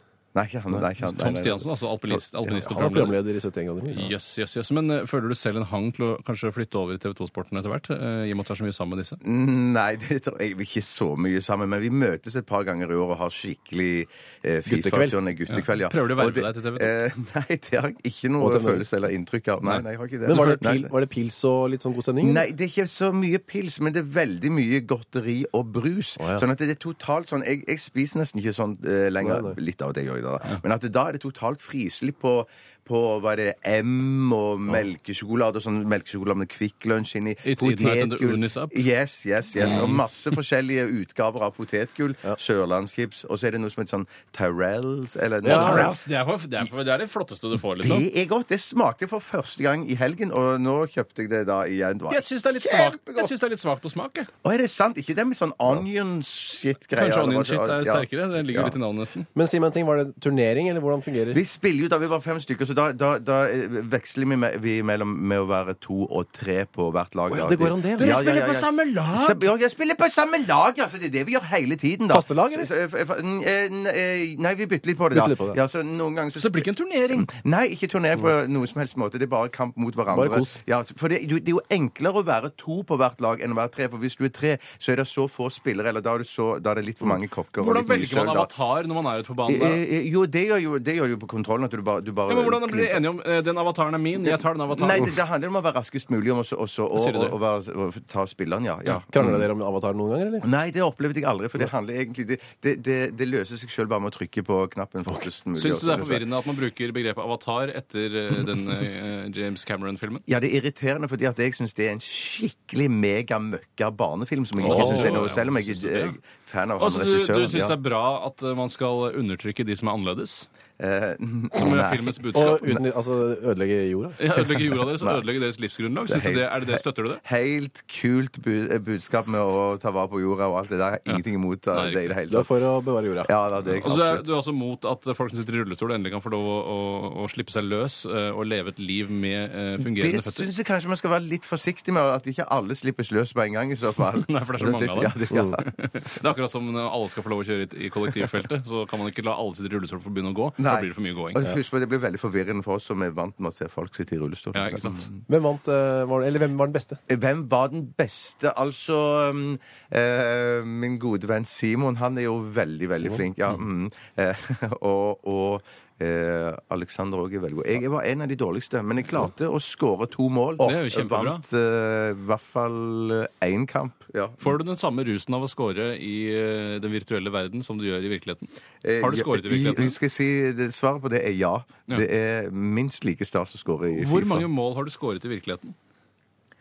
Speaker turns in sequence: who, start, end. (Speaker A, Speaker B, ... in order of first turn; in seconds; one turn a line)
Speaker A: 0.3-1.7
Speaker B: 0.9-3.2
Speaker C: 2.5-4.1
Speaker B: 3.9-9.2
Speaker A: 9.2-20.9
Speaker C: 14.7-15.2
Speaker B: 15.5-16.9
Speaker C: 18.4-18.9
Speaker B: 19.6-20.5
Speaker C: 20.3-22.5
Speaker A: 22.2-46.0
Speaker C: 29.2-29.6
Speaker B: 37.5-38.8
Speaker B: 39.6-40.0
Speaker C: 45.4-45.9
Speaker B: 45.5-48.1
Speaker A: 47.8-53.3
Speaker B: 52.1-54.3
Speaker A: 54.4-58.8
Speaker B: 57.0-59.3
Speaker C: 59.4-61.4
Speaker A: 61.3-88.5
Speaker C: 67.3-68.2
Speaker B: 68.0-69.5
Speaker C: 72.1-72.7
Speaker C: 75.1-75.6
Speaker B: 76.4-77.3
Speaker C: 80.1-80.6
Speaker B: 87.6-89.8
Speaker A: 89.5-93.0
Speaker B: 92.3-95.1
Speaker A: 94.7-99.5
Speaker B: 97.0-97.3
Speaker C: 99.1-100.5
Speaker A: 100.4-106.2
Speaker B: 105.6-110.2
Speaker A: 110.3-117.8
Speaker B: 114.6-116.2
Speaker C: 114.6-115.2
Speaker B: 116.8-120.5
Speaker A: 120.8-122.8
Speaker B: 121.5-122.7
Speaker C: 122.3-124.2
Speaker B: 124.2-127.2
Speaker A: 126.1-132.5
Speaker B: 131.7-132.1
Speaker C: 132.3-133.3
Speaker A: 133.2-134.2
Speaker B: 133.7-140.5
Speaker A: 139.8-145.6
Speaker B: 144.2-151.4
Speaker A: 150.6-155.2
Speaker B: 154.5-155.1
Speaker C: 155.3-157.0
Speaker A: 157.1-174.5
Speaker C: 163.0-163.2
Speaker B: 170.6-171.4
Speaker B: 174.4-180.0
Speaker A: 178.8-184.5
Speaker B: 183.9-185.8